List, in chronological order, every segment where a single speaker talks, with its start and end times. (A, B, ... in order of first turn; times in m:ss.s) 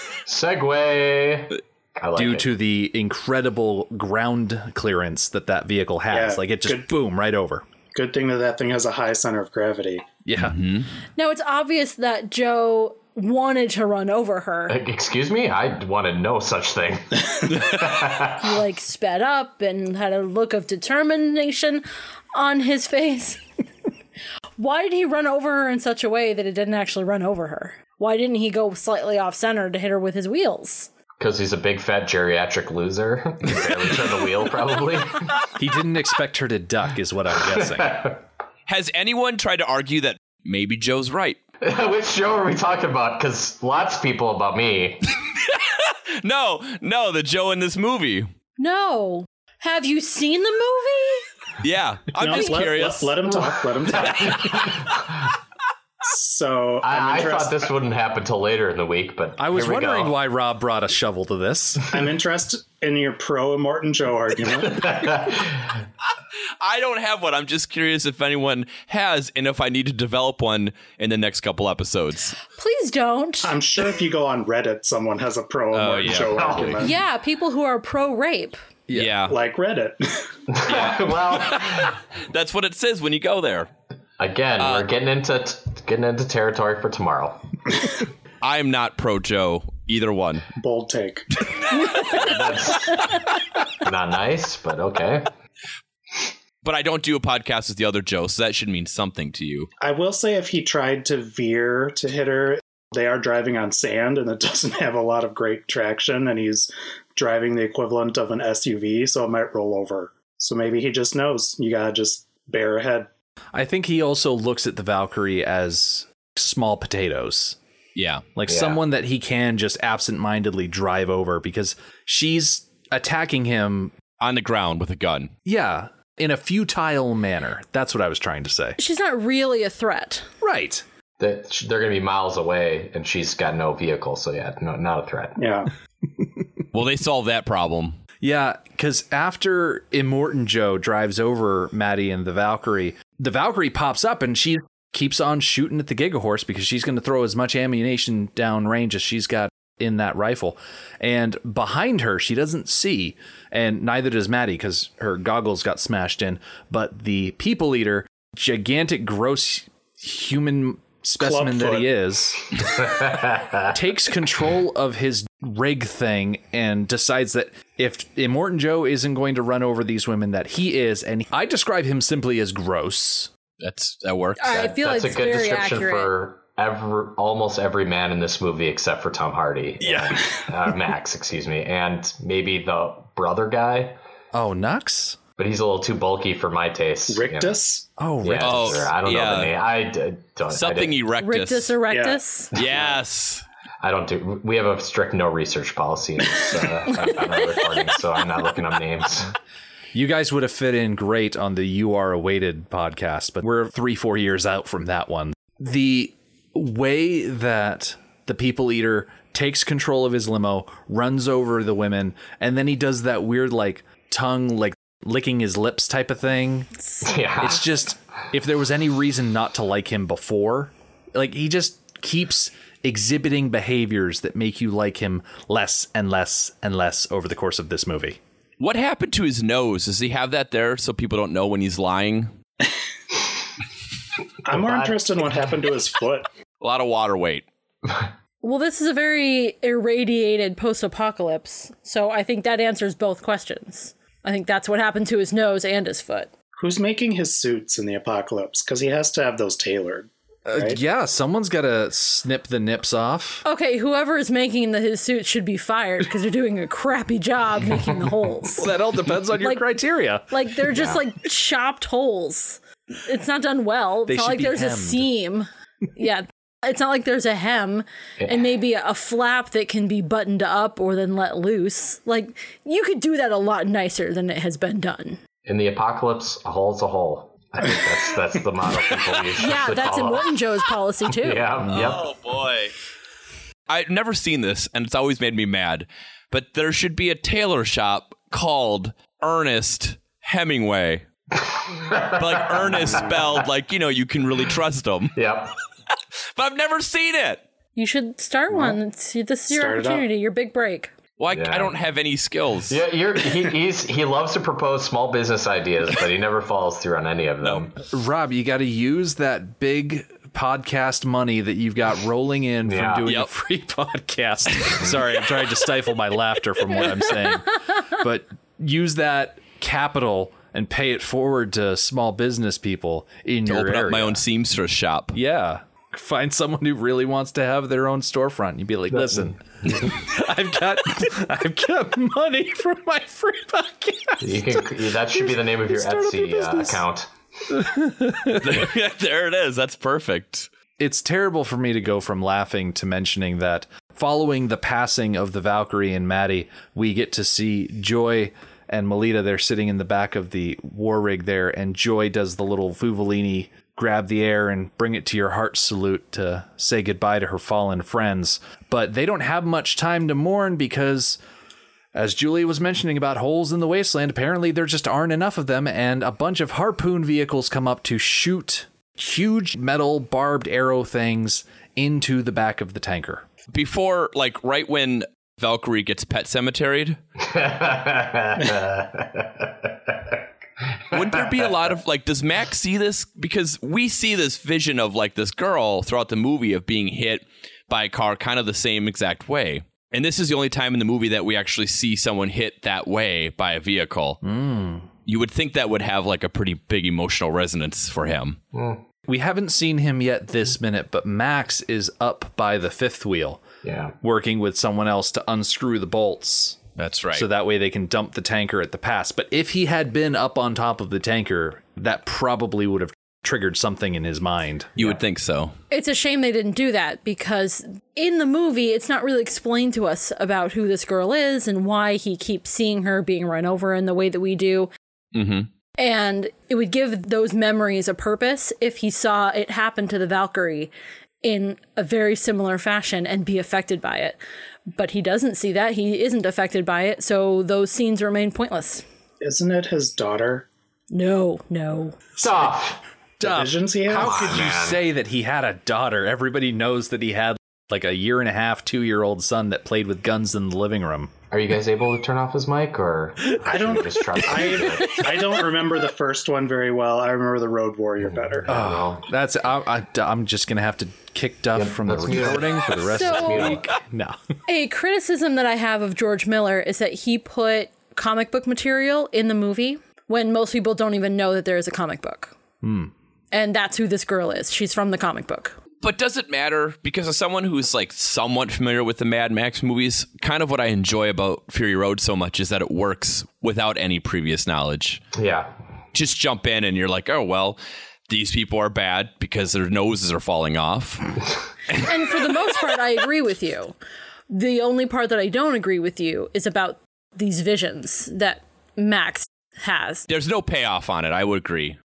0:00.2-0:02.5 A
0:02.2-0:07.6 B
0:06.1-0:06.9 C
0:07.9-0:10.1 C
0:10.2-0:10.6 B
0:10.4-0:10.9 D
0:11.2-0:14.8 E
0:14.7-0:18.5 A
0:18.4-0:23.4 E
0:24.6-0:30.9 E
0:31.2-0:35.5 A
0:35.6-0:38.0 B
0:37.4-0:38.2 A
0:38.7-0:41.4 D
0:41.6-0:45.0 A
0:45.2-0:48.3 D
0:48.6-0:51.2 E
0:51.6-0:53.3 D
0:52.2-0:54.5 C
0:54.0-0:55.3 A
0:56.0-0:57.7 C
0:56.8-1:00.2 A
0:59.4-1:01.9 B
1:01.9-1:05.1 C
1:04.6-1:05.8 A
1:06.6-1:12.4 D
1:12.5-1:13.5 E
1:13.4-1:17.0 C
1:15.7-1:16.8 D
1:16.2-1:16.8 A
1:16.8-1:18.6 E
1:18.9-1:19.2 B
1:18.9-1:19.4 D
1:19.3-1:20.3 C
1:20.5-1:22.0 A
1:20.7-1:23.7 D
1:24.2-1:27.4 A
1:24.6-1:24.9 D
1:28.4-1:30.5 D
1:30.6-1:31.3 C
1:32.0-1:33.1 A
1:32.0-1:32.4 D
1:33.8-1:35.3 A
1:36.6-1:39.7 D
1:39.8-1:53.1 C
1:53.5-1:57.6 B
1:58.0-1:58.3 D
1:58.4-2:03.9 B
1:58.5-1:58.8 A
2:04.2-2:05.3 D
2:05.4-2:08.8 B
2:08.8-2:10.3 E
2:10.4-2:10.8 B
2:11.2-2:15.4 A
2:15.4-2:15.7 C
2:16.7-2:18.0 D
2:18.2-2:42.5 B
2:41.2-2:41.9 C
2:42.6-2:43.7 A
2:43.7-2:53.3 B
2:53.6-2:54.6 D
2:54.4-2:56.1 E
2:54.5-3:04.0 A
2:59.8-3:00.4 D
3:04.3-3:05.2 B
3:05.4-3:07.6 A
3:07.1-3:07.9 C
3:08.0-3:08.9 B
3:08.2-3:11.0 A
3:08.4-3:09.5 D
3:10.5-3:11.8 D
3:11.2-3:12.5 E
3:11.9-3:12.2 C
3:12.5-3:13.4 D
3:12.6-3:13.0 A
3:13.8-3:19.3 A
3:19.9-3:36.7 B
3:37.0-3:37.7 A
3:37.4-3:48.2 B
3:48.6-3:52.3 D
3:54.4-3:56.3 C
3:54.5-3:55.0 A
3:56.6-3:57.5 D
3:58.4-4:06.3 E
4:06.6-4:10.8 C
4:10.5-4:13.4 B
4:13.4-4:18.7 E
4:18.6-4:20.3 B
4:19.4-4:19.6 E
4:20.3-4:35.2 E
4:20.7-4:21.0 A
4:24.1-4:25.1 B
4:28.2-4:28.5 A
4:35.5-4:40.4 A
4:39.4-4:41.5 E
4:41.1-4:42.1 A
4:41.7-4:42.7 D
4:43.7-4:51.0 D
4:51.4-4:53.3 A
4:52.1-4:55.2 D
4:55.2-4:55.5 A
4:56.4-4:57.4 D
4:57.8-5:00.9 E
4:59.5-5:00.1 C
5:01.2-5:02.8 D
5:01.3-5:01.8 A
5:02.7-5:07.8 A
5:07.9-5:24.2 B
5:12.6-5:13.1 A
5:13.0-5:13.3 D
5:23.5-5:25.2 D
5:25.1-5:36.8 B
5:34.2-5:37.1 A
5:37.5-5:38.6 B
5:38.4-5:40.5 D
5:40.8-6:01.2 B
6:01.9-6:13.2 B
6:13.5-6:17.0 D
6:17.2-6:20.2 A
6:20.9-6:21.2 A
6:20.9-6:34.2 D
6:34.2-6:34.9 B
6:35.0-6:38.4 D
6:38.5-6:38.8 A
6:39.1-6:43.4 B
6:43.6-6:44.0 A
6:44.0-6:46.6 B
6:46.8-6:47.3 D
6:47.1-6:54.8 B
6:54.8-6:55.5 D
6:55.7-7:04.7 E
7:05.1-7:05.5 D
7:05.8-7:10.7 E
7:11.2-7:14.2 E
7:14.7-7:18.8 E
7:19.2-7:20.5 C
7:20.9-7:22.0 E
7:22.2-7:22.8 A
7:23.2-7:31.2 B
7:23.2-7:24.3 C
7:23.9-7:24.8 A
7:31.3-7:35.1 A
7:33.4-7:38.6 C
7:38.1-7:39.0 A
7:38.5-7:44.2 B
7:41.5-7:43.7 A
7:42.8-7:43.6 E
7:44.5-7:52.4 E
7:52.6-7:52.9 B
7:53.3-7:55.6 E
7:55.8-8:05.0 D
8:05.1-8:05.5 A
8:05.9-8:11.2 D
8:11.7-8:12.2 D
8:11.8-8:13.8 E
8:14.3-8:20.1 E
8:20.1-8:21.8 D